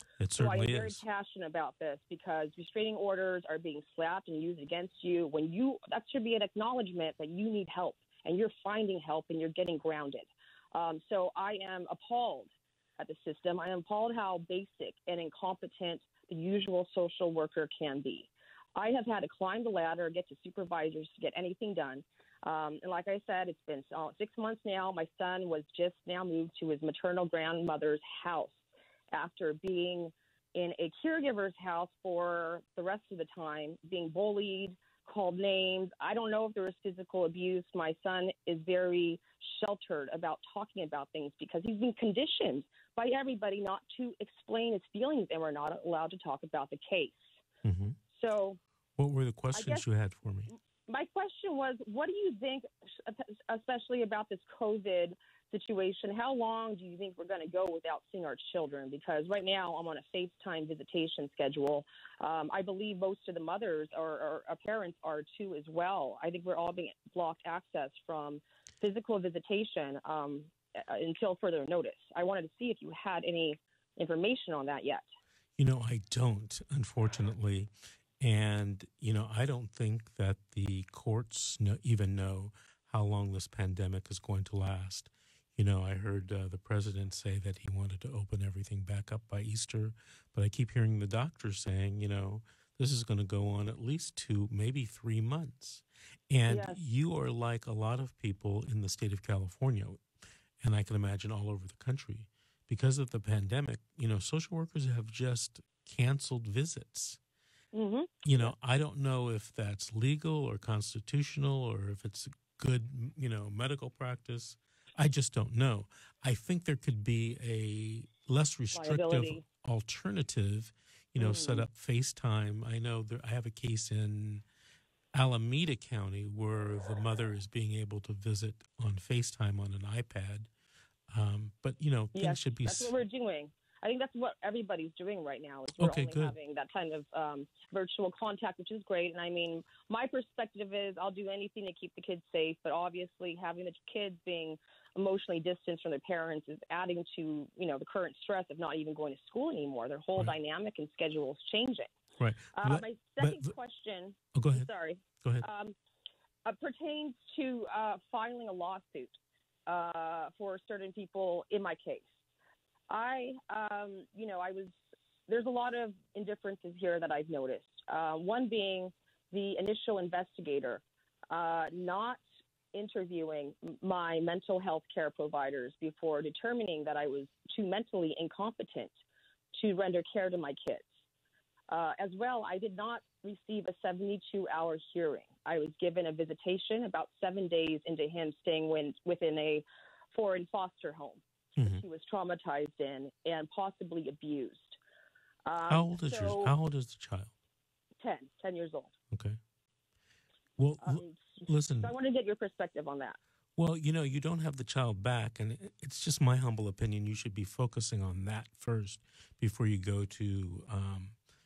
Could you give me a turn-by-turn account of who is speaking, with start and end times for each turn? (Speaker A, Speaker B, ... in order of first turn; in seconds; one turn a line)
Speaker A: 0.2-1.0
Speaker B: 0.4-28.6
Speaker B: 29.1-47.4
Speaker A: 47.6-48.0
Speaker B: 48.1-48.6
Speaker A: 49.0-50.5
Speaker B: 49.5-49.8
Speaker B: 50.5-75.1
Speaker A: 75.6-100.0
Speaker B: 96.5-96.8
Speaker A: 100.6-107.2
Speaker B: 107.7-108.5
Speaker A: 108.2-124.4
Speaker B: 118.7-119.4
Speaker B: 121.2-121.7
Speaker A: 125.1-130.5
Speaker A: 131.1-132.9
Speaker B: 132.1-151.9
Speaker A: 135.8-136.3
Speaker A: 152.2-153.5
Speaker B: 152.5-155.8
Speaker A: 154.3-154.7
Speaker B: 156.4-162.1
Speaker B: 162.9-164.8
Speaker B: 165.3-172.2
Speaker B: 172.7-179.0
Speaker B: 179.5-180.9
Speaker B: 181.7-194.8
Speaker A: 191.6-191.8
Speaker B: 195.4-196.5
Speaker A: 195.7-197.3
Speaker B: 198.0-198.9
Speaker A: 199.1-199.4
Speaker A: 200.6-201.9
Speaker B: 200.8-203.2
Speaker A: 203.6-211.2